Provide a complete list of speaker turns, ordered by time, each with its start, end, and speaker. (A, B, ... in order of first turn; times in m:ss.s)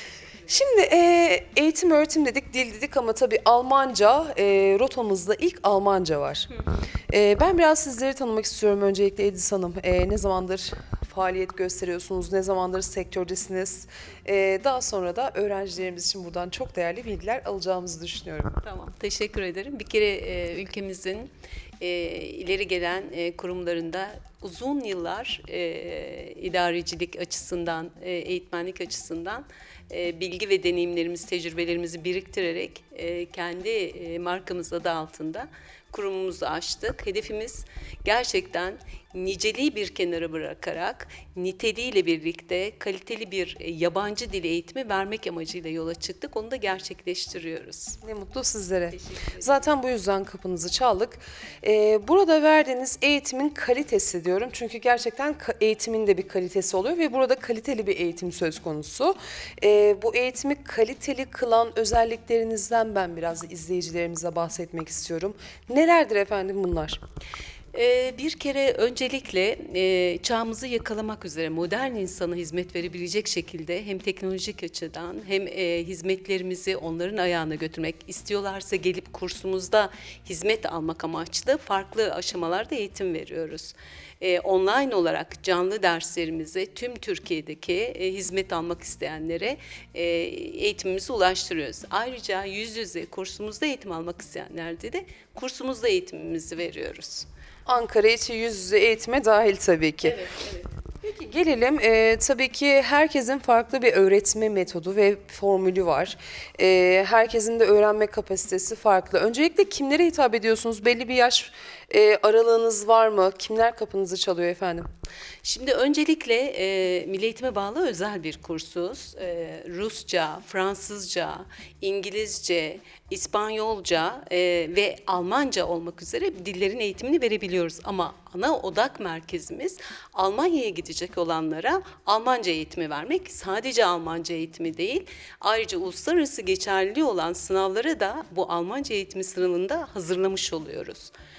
0:00.5-0:06.5 A
0:06.5-0:06.8 B
0:07.1-0:18.6 A
0:18.6-0:48.0 B
0:48.0-1:07.0 A
0:48.9-0:49.7 B
1:07.7-1:37.3 B
1:37.7-1:40.2 A
1:40.0-1:40.7 B
1:41.0-1:54.9 A
1:55.4-2:21.1 B